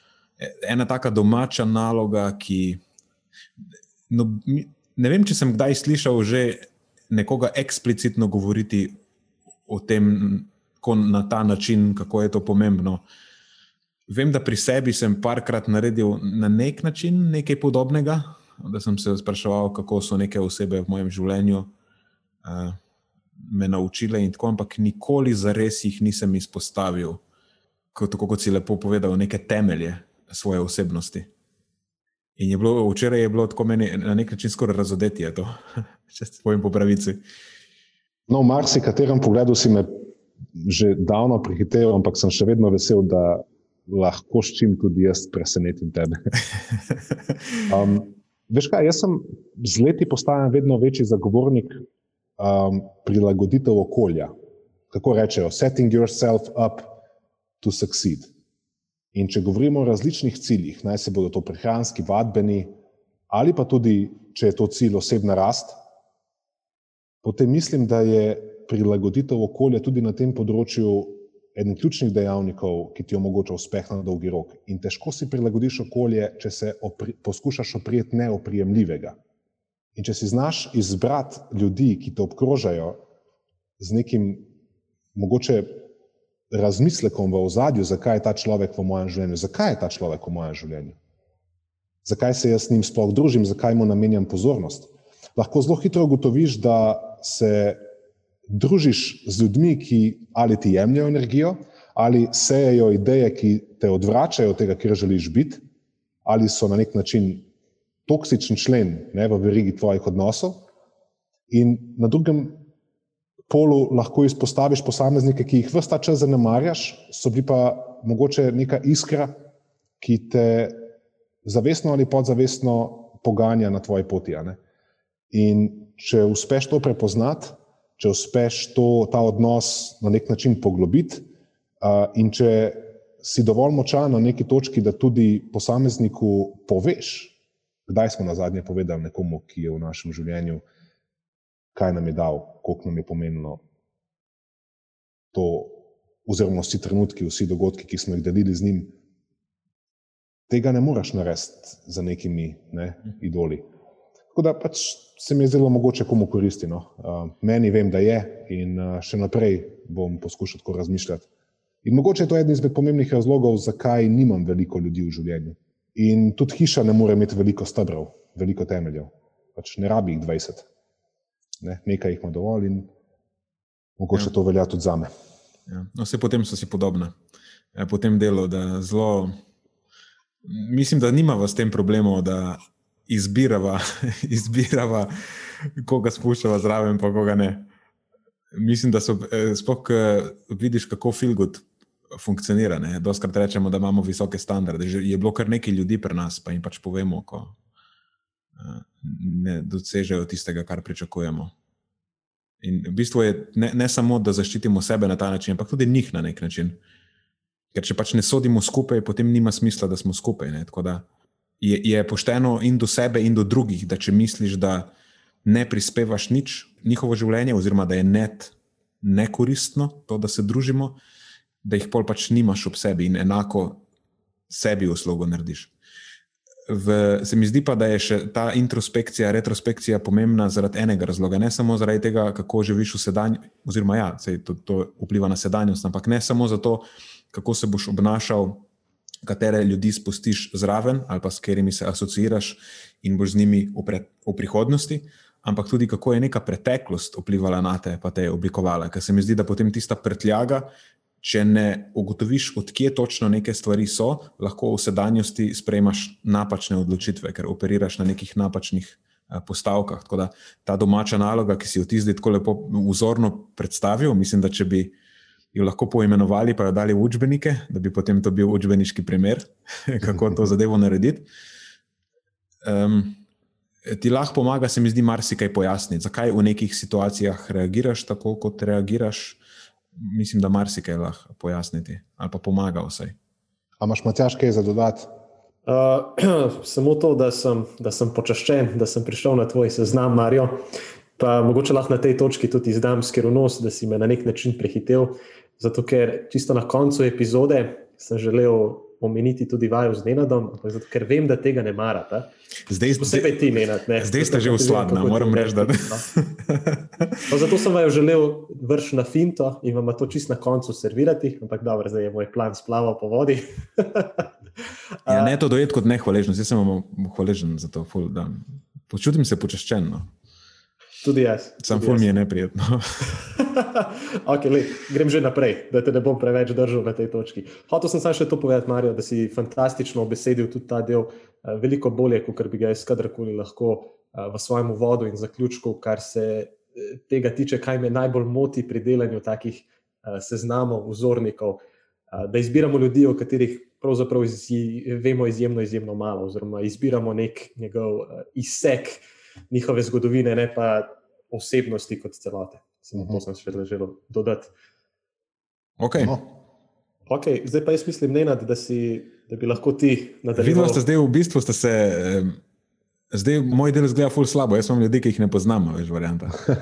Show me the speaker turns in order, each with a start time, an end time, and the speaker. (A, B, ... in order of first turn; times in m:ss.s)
0:00.4-0:02.8 A
0:04.1-0:09.0 A
0:09.7-0:13.0 A
0:14.1-0:21.7 A
0:22.4-0:22.8 A
0:23.4-0:27.2 A
0:27.9-0:31.3 A
0:32.4-0:35.5 A
0:36.1-0:37.2 A
0:38.3-0:39.9 B
0:40.6-0:46.2 B
0:47.7-0:51.8 B
0:52.4-0:54.3 B
0:54.9-0:57.0 B
0:57.6-0:58.3 B
0:59.1-1:02.7 B
1:03.3-1:05.8 B
1:07.2-1:19.2 B
1:20.0-1:23.0 B
1:23.8-1:24.5 B
1:25.2-1:25.9 B
1:26.5-1:31.0 B
1:32.0-1:37.8 B
1:38.5-1:45.6 B
1:46.2-1:47.5 B
1:48.1-1:50.6 B
1:51.5-1:52.7 B
1:53.5-1:59.4 B
2:00.0-2:00.8 B
2:01.4-2:04.6 B
2:05.3-2:11.3 B
2:11.8-2:20.6 B
2:21.7-2:23.6 B
2:25.3-2:28.9 B
2:30.5-2:33.6 B
2:34.3-2:41.3 B
2:41.8-2:50.7 B
2:51.6-2:52.9 B
2:54.0-2:55.1 B
2:55.7-2:57.2 A
2:57.8-2:59.4 A
3:00.4-3:07.7 A
3:08.5-3:17.6 A
3:18.6-3:21.5 A
3:22.6-3:26.8 A
3:27.7-3:31.0 A
3:31.6-3:34.9 A
3:35.5-3:41.0 A
3:41.6-3:43.8 A
3:44.5-3:45.7 A
3:46.7-3:58.7 A
3:59.3-4:10.7 A
4:11.2-4:25.0 A
4:25.5-4:31.3 A
4:32.6-4:33.2 A
4:33.9-4:39.4 A
4:40.0-4:43.2 A
4:43.8-4:45.1 B
4:45.7-4:50.6 C
4:51.2-5:02.3 C
5:02.7-5:03.4 A
5:02.9-5:06.1 C
5:04.0-5:07.2 A
5:07.3-5:14.3 C
5:15.0-5:15.4 C
5:15.1-5:20.1 A
5:21.0-5:22.1 C
5:21.6-5:23.0 A
5:23.4-5:41.6 C
5:42.1-5:54.5 C
5:53.0-5:53.2 B
5:55.8-5:56.2 A
5:57.1-6:00.8 C
6:00.4-6:02.4 A
6:03.1-6:06.5 A